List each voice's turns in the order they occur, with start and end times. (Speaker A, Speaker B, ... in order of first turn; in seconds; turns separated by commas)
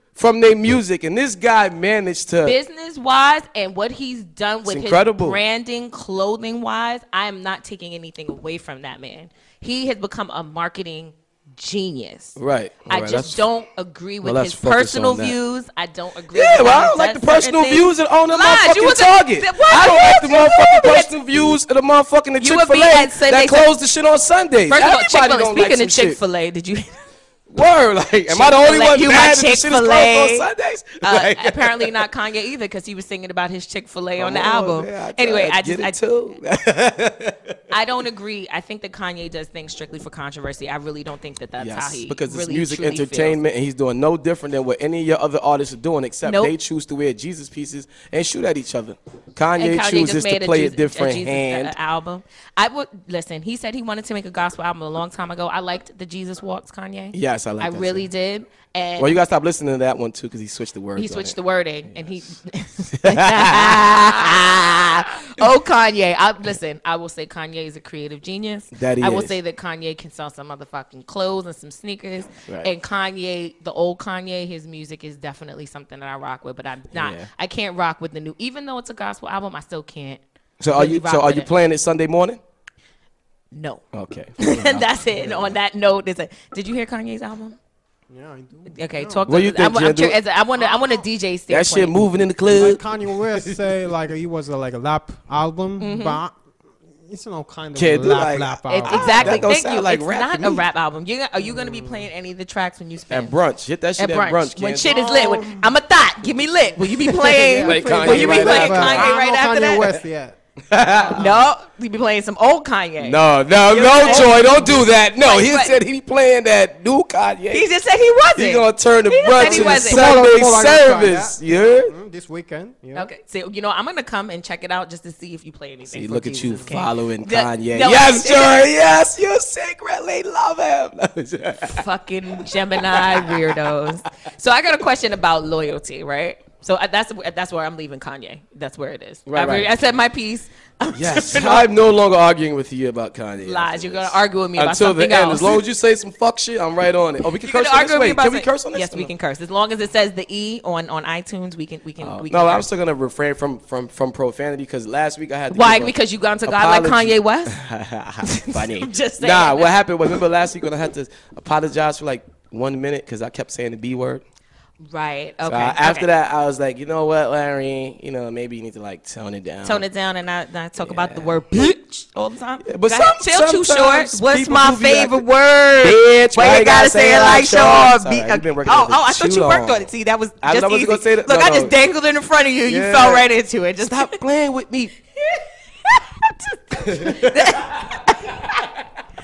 Speaker A: 0.1-2.6, Speaker B: 2.4-12.4, Speaker A: 4.7-5.4, Speaker A: 12.3-13.4, Speaker B: 12.9-21.2, Speaker A: 14.2-15.3, Speaker A: 16.3-26.2, Speaker B: 22.4-23.7, Speaker B: 24.7-27.0, Speaker A: 27.5-32.0, Speaker B: 28.3-30.5, Speaker B: 31.0-36.0, Speaker A: 34.2-37.5, Speaker B: 37.7-43.4, Speaker A: 41.6-51.7, Speaker B: 46.2-46.5, Speaker B: 49.6-59.1, Speaker A: 57.1-58.0, Speaker A: 59.0-61.4, Speaker B: 61.0-81.5, Speaker A: 62.9-64.4, Speaker A: 68.7-69.3, Speaker A: 76.9-77.3, Speaker A: 80.6-82.4, Speaker B: 83.5-83.8, Speaker A: 83.9-85.5, Speaker B: 84.4-87.6, Speaker C: 88.1-89.3, Speaker B: 88.7-91.9, Speaker A: 89.3-90.2, Speaker C: 90.6-91.0, Speaker A: 91.5-92.8, Speaker C: 92.5-96.3, Speaker A: 93.3-93.6, Speaker B: 95.8-96.2, Speaker C: 97.0-99.5, Speaker A: 97.7-100.6, Speaker B: 98.7-103.3, Speaker C: 101.4-102.0, Speaker A: 103.1-105.0, Speaker B: 104.0-110.0, Speaker C: 104.9-105.7, Speaker C: 107.0-110.4, Speaker A: 107.6-109.1, Speaker A: 110.7-111.4, Speaker C: 110.9-111.2, Speaker B: 111.1-115.8, Speaker A: 113.0-117.7, Speaker C: 114.0-114.6, Speaker B: 117.5-120.1, Speaker A: 118.3-121.9, Speaker C: 119.4-123.1, Speaker B: 122.9-128.7, Speaker A: 125.9-131.8, Speaker B: 131.7-141.7, Speaker A: 132.4-133.8, Speaker A: 139.3-139.7, Speaker A: 140.9-149.1, Speaker B: 143.4-145.6, Speaker B: 147.4-152.7, Speaker A: 152.0-164.2, Speaker B: 155.5-157.6, Speaker B: 158.2-159.7, Speaker B: 164.9-166.1, Speaker A: 165.4-169.8, Speaker B: 169.6-184.2, Speaker A: 170.8-171.7, Speaker A: 172.6-175.2, Speaker A: 175.8-179.9, Speaker A: 180.4-181.7, Speaker A: 182.7-183.3, Speaker A: 183.9-184.9, Speaker B: 185.2-188.7, Speaker A: 186.7-187.9